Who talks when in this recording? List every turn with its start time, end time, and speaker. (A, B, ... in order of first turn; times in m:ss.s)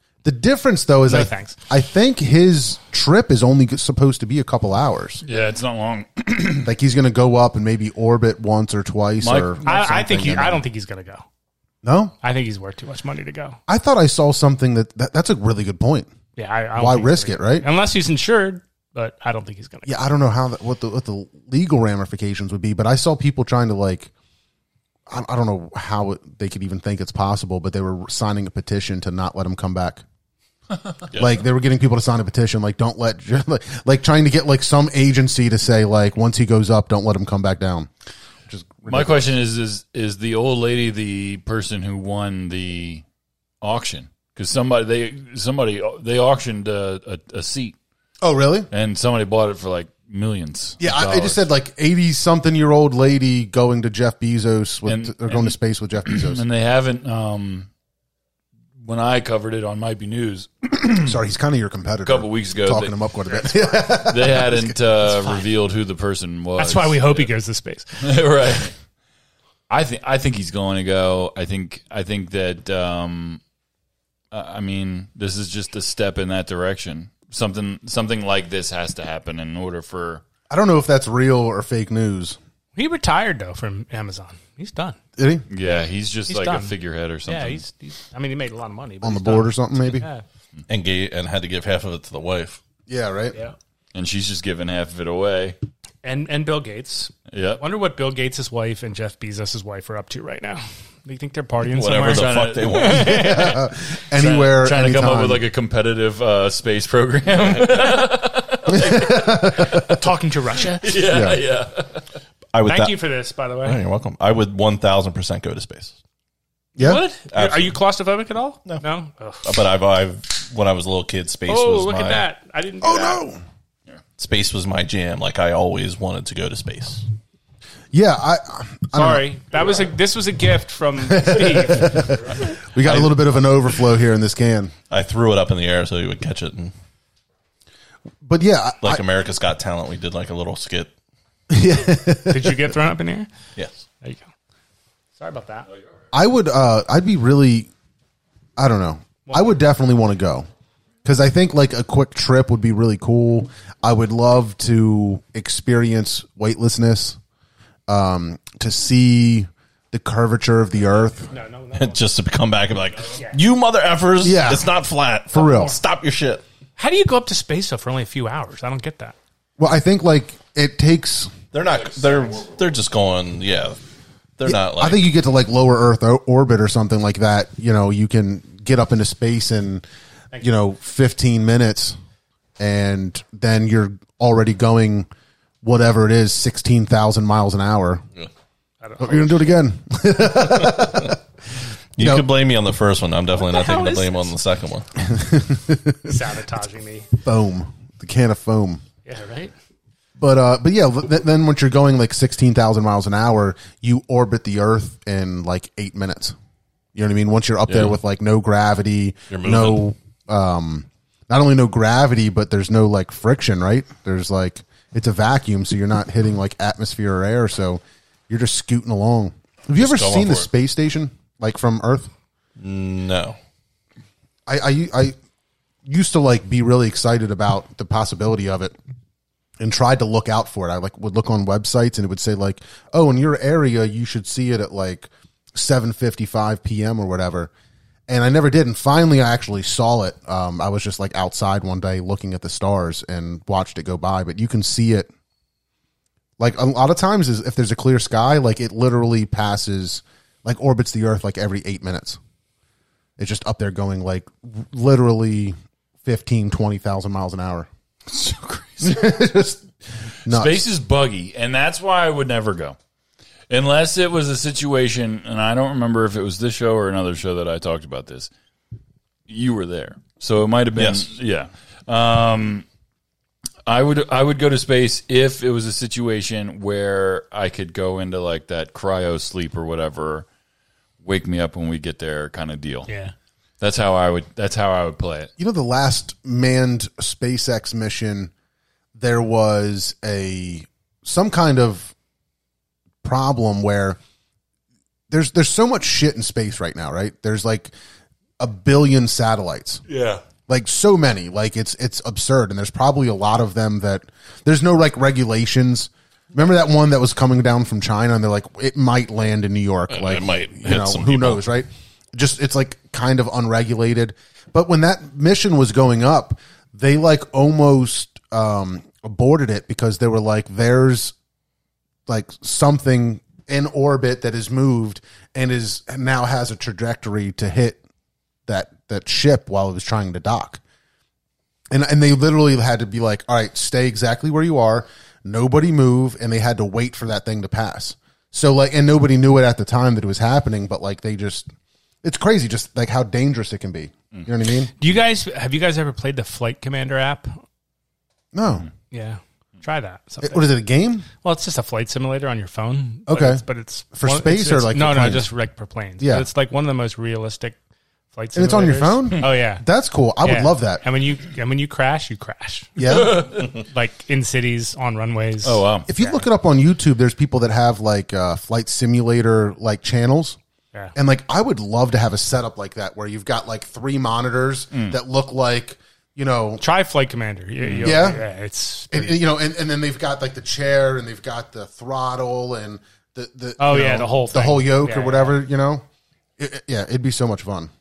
0:00.2-0:05.2 A
0:01.1-0:01.6 B
0:05.2-0:06.7 C
0:06.6-0:10.6 A
0:09.2-0:10.3 C
0:09.6-0:11.2 B
0:11.8-0:12.1 A
0:12.2-0:13.6 B
0:13.7-0:16.1 A
0:16.4-0:19.9 B
0:16.8-0:17.6 A
0:19.9-0:24.1 A
0:25.1-0:30.0 A
0:31.1-0:37.9 A
0:38.5-0:39.3 A
0:38.9-0:43.0 C
0:43.6-0:47.8 C
0:48.2-0:48.7 A
0:48.7-0:51.4 C
0:50.8-0:56.4 A
0:54.9-0:55.6 C
0:56.1-0:57.7 C
0:58.8-1:01.1 C
1:01.0-1:05.1 A
1:02.0-1:02.9 C
1:03.3-1:03.8 B
1:03.8-1:07.3 C
1:06.6-1:08.0 B
1:08.0-1:08.7 C
1:09.7-1:13.4 C
1:14.3-1:20.2 C
1:20.5-1:22.4 A
1:22.8-1:25.0 B
1:25.2-1:25.4 A
1:25.5-1:27.6 C
1:26.3-1:26.7 B
1:27.2-1:30.2 B
1:29.0-1:30.0 A
1:30.7-1:32.6 D
1:32.9-1:33.4 A
1:33.9-1:35.6 C
1:36.0-1:43.6 B
1:37.3-1:37.6 C
1:41.7-1:43.4 D
1:42.0-1:43.1 C
1:42.9-1:45.5 A
1:44.1-1:49.4 C
1:48.7-1:50.0 A
1:49.6-1:51.0 B
1:50.8-1:52.0 C
1:51.1-1:51.4 A
1:52.5-1:53.0 D
1:52.6-1:53.8 B
1:53.6-1:56.0 D
1:56.8-1:57.0 A
1:56.8-1:59.4 B
1:57.3-1:57.8 D
1:59.4-2:02.2 D
2:01.5-2:03.2 B
2:02.8-2:03.4 A
2:04.2-2:07.0 D
2:07.9-2:09.2 A
2:08.9-2:12.2 B
2:11.1-2:14.7 A
2:12.8-2:13.2 D
2:14.9-2:16.7 D
2:18.2-2:19.0 A
2:18.8-2:20.9 D
2:21.5-2:22.7 A
2:22.3-2:23.3 B
2:23.6-2:23.8 D
2:25.2-2:25.7 B
2:26.1-2:27.7 A
2:28.6-2:30.5 A
2:29.3-2:29.6 B
2:31.0-2:37.2 A
2:37.9-2:41.3 A
2:41.3-2:42.0 B
2:41.7-2:46.4 D
2:44.2-2:44.7 A
2:45.3-2:45.8 A
2:46.8-2:49.2 B
2:49.6-2:51.3 A
2:51.5-2:53.8 D
2:51.8-2:52.5 C
2:54.4-2:55.0 D
2:54.4-2:59.8 A
3:00.4-3:02.0 A
3:02.6-3:05.1 A
3:05.6-3:08.0 A
3:08.8-3:09.5 B
3:09.0-3:11.2 A
3:12.0-3:14.9 D
3:12.0-3:12.3 A
3:13.4-3:14.3 B
3:15.0-3:16.2 A
3:16.0-3:17.1 B
3:17.2-3:18.8 A
3:19.0-3:19.5 B
3:20.2-3:26.4 A
3:27.0-3:42.1 A
3:27.7-3:27.9 C
3:29.3-3:29.8 D
3:39.8-3:40.5 D
3:42.6-3:43.4 D
3:44.5-3:45.2 A
3:45.8-3:48.8 A
3:49.6-3:57.5 A
3:58.1-4:05.1 A
4:06.4-4:12.2 A
4:13.2-4:17.7 A
4:18.1-4:19.0 C
4:18.8-4:19.7 A
4:20.2-4:20.6 A
4:20.3-4:22.8 C
4:23.5-4:28.3 C
4:29.3-4:32.7 C
4:30.8-4:31.1 D
4:33.7-4:40.3 C
4:41.0-4:42.9 C
4:42.9-4:43.1 B
4:43.6-4:45.3 C
4:45.4-4:48.3 A
4:49.0-4:51.9 A
4:53.0-4:54.0 A
4:55.1-4:57.7 A
4:58.4-4:59.8 A
4:59.9-5:00.2 C
5:00.5-5:21.2 A
5:09.9-5:11.4 D
5:22.1-5:27.8 A
5:28.5-5:30.6 A
5:31.7-5:41.5 A
5:42.0-5:44.7 A
5:44.8-5:47.4 B
5:48.3-5:48.7 A
5:48.9-5:50.5 B
5:50.2-5:51.1 A
5:51.2-5:57.6 B
5:53.1-5:55.3 A
5:56.0-5:56.3 A
5:58.1-5:59.6 B
5:58.4-6:00.8 A
6:00.2-6:06.2 B
6:02.8-6:03.3 A
6:02.9-6:03.5 C
6:05.4-6:05.9 C
6:05.9-6:10.4 A
6:11.0-6:16.6 A
6:14.7-6:15.0 C
6:16.6-6:19.2 B
6:17.6-6:18.0 C
6:17.8-6:18.2 A
6:18.9-6:25.8 A
6:23.6-6:25.4 B
6:26.4-6:27.7 A